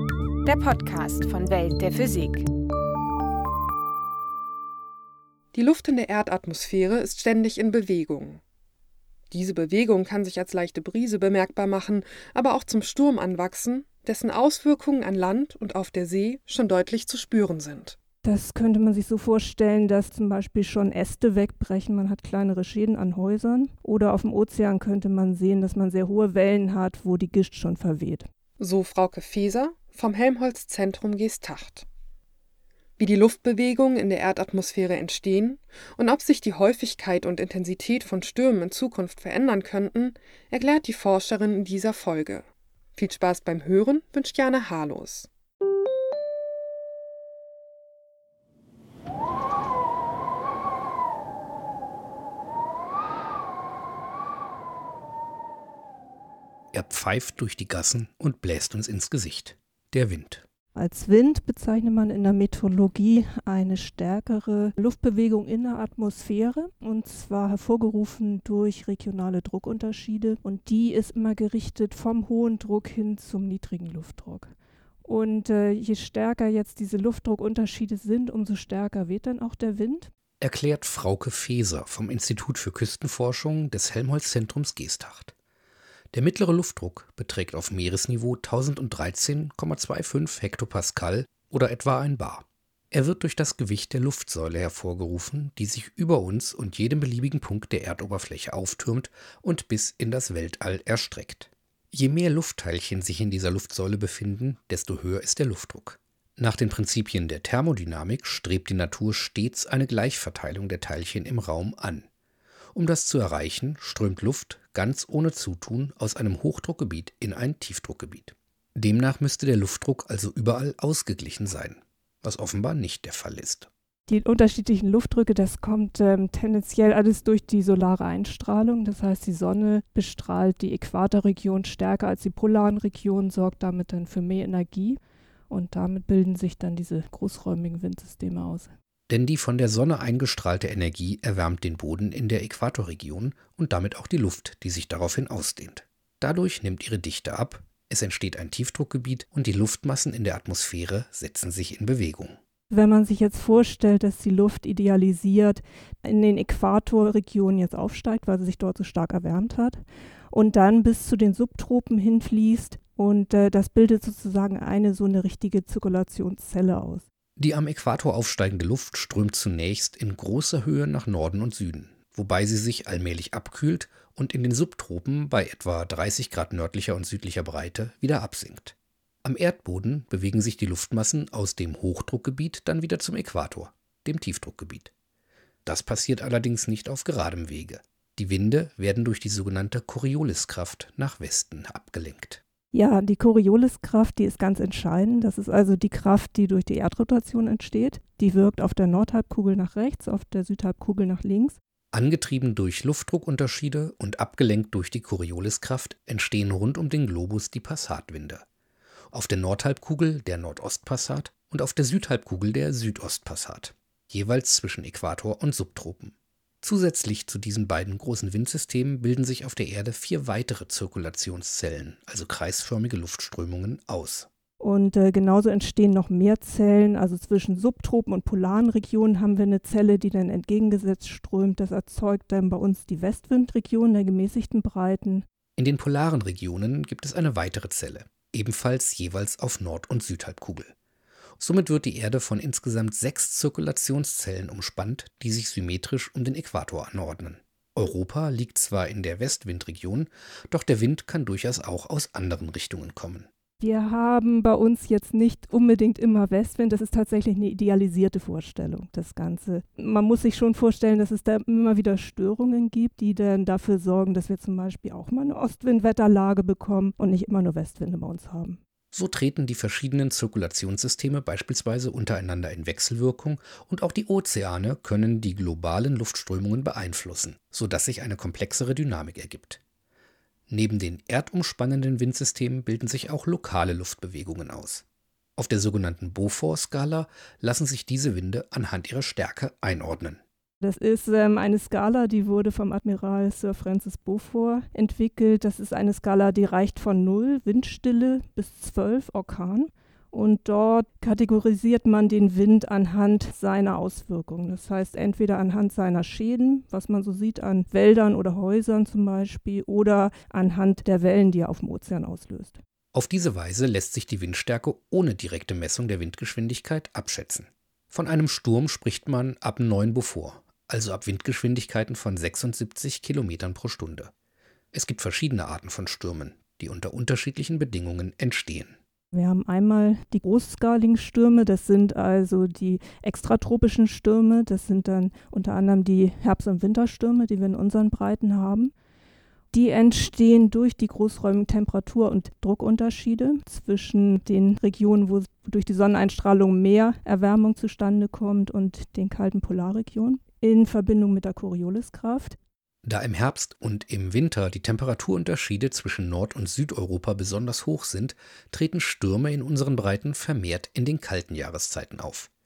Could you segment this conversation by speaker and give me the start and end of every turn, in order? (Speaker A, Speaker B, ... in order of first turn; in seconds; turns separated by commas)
Speaker A: 0.4-2.5, Speaker B: 5.5-8.4, Speaker B: 9.3-18.0, Speaker C: 18.2-28.3, Speaker B: 28.6-31.9, Speaker B: 33.0-42.5, Speaker B: 43.0-45.3, Speaker D: 56.7-60.4, Speaker C: 60.7-74.5, Speaker C: 75.0-80.1, Speaker D: 80.4-85.3, Speaker D: 86.1-112.1, Speaker D: 112.7-123.7, Speaker C: 124.1-138.7, Speaker D: 139.1-152.4, Speaker C: 152.7-167.1, Speaker D: 167.4-184.9, Speaker D: 185.7-192.4, Speaker C: 192.7-201.6, Speaker D: 201.9-208.4, Speaker D: 209.1-224.3, Speaker C: 224.6-235.3, Speaker D: 235.6-240.7, Speaker D: 241.4-253.3, Speaker C: 253.6-268.6, Speaker D: 268.9-279.6, Speaker D: 280.5-284.9, Speaker D: 285.4-290.2, Speaker C: 290.6-312.6, Speaker D: 312.9-324.1, Speaker D: 324.7-328.8, Speaker C: 329.1-338.7, Speaker C: 339.5-352.4, Speaker D: 352.9-362.3